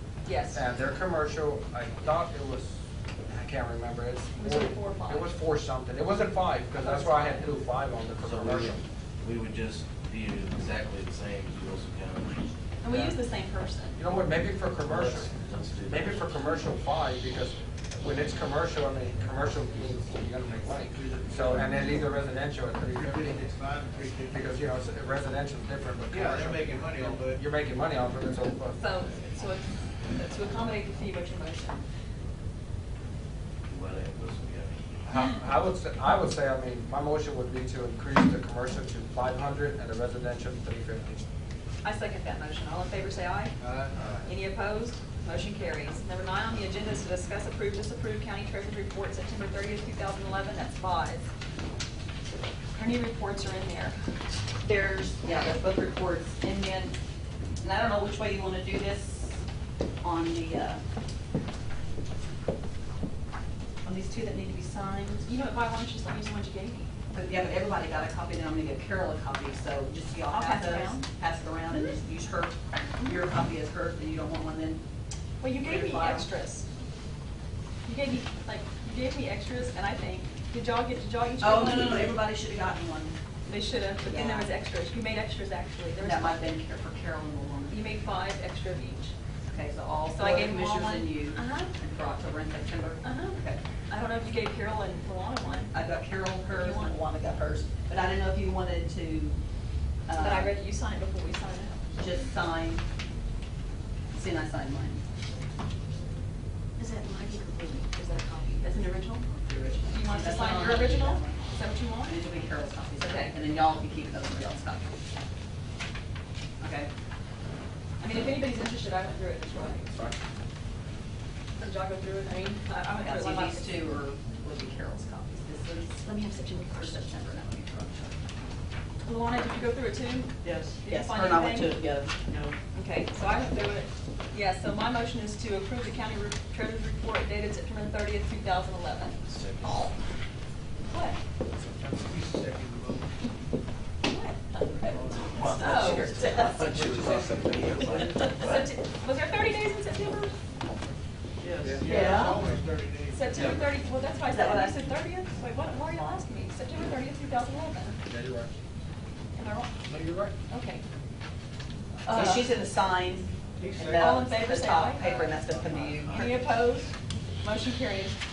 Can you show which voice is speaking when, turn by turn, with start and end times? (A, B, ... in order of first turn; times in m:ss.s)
0:00.2-0:00.6 A
0:00.5-0:08.8 B
0:04.4-0:05.4 A
0:06.8-0:07.5 A
0:08.2-0:12.4 C
0:12.8-0:14.0 A
0:12.9-0:13.2 B
0:14.0-0:15.3 B
0:14.8-0:16.3 C
0:15.8-0:23.5 B
0:21.0-0:21.6 D
0:22.9-0:24.5 D
0:24.2-0:28.8 B
0:26.1-0:27.4 D
0:28.8-0:31.8 A
0:33.7-0:35.0 C
0:35.0-0:41.2 B
0:41.8-0:43.5 A
0:43.6-0:44.2 D
0:44.2-0:51.3 A
0:52.7-0:54.0 A
0:54.6-0:56.9 E
0:57.6-0:59.4 E
1:00.0-1:00.8 E
1:03.8-1:05.3 E
1:05.2-1:06.9 A
1:07.1-1:14.8 E
1:10.3-1:11.0 A
1:15.4-1:16.6 A
1:15.6-1:16.3 E
1:17.8-1:22.2 A
1:21.4-1:23.2 E
1:23.4-1:26.4 A
1:24.0-1:24.5 E
1:26.0-1:27.8 E
1:27.7-1:29.1 A
1:29.4-1:33.6 E
1:30.1-1:31.7 A
1:33.0-1:35.7 A
1:35.7-1:39.4 E
1:36.5-1:37.0 A
1:40.0-1:40.5 E
1:40.2-1:41.8 A
1:42.0-1:42.8 E
1:44.1-1:45.0 E
1:46.8-1:48.9 A
1:48.6-1:51.4 E
1:49.8-1:52.2 A
1:52.0-1:54.9 E
1:53.0-1:53.3 A
1:56.6-1:56.9 E
1:58.0-1:59.9 A
1:59.9-2:00.2 B
2:01.6-2:03.8 A
2:03.0-2:08.1 E
2:06.0-2:07.0 A
2:09.0-2:11.8 A
2:10.4-2:12.6 E
2:12.7-2:19.2 A
2:19.2-2:19.9 C
2:20.9-2:21.2 A
2:21.8-2:23.1 D
2:24.1-2:24.4 A
2:24.7-2:25.9 D
2:24.9-2:26.8 E
2:25.3-2:28.6 C
2:25.5-2:26.5 A
2:28.1-2:30.4 A
2:31.4-2:32.5 E
2:31.6-2:33.6 D
2:33.1-2:38.0 A
2:34.3-2:34.8 E
2:38.0-2:38.5 B
2:39.3-2:39.7 A
2:39.8-2:40.3 B
2:40.5-2:40.8 A
2:42.0-2:42.5 A
2:42.1-2:46.5 E
2:43.6-2:44.2 D
2:43.9-2:45.3 A
2:45.0-2:46.0 D
2:45.4-2:46.2 C
2:46.1-2:48.2 A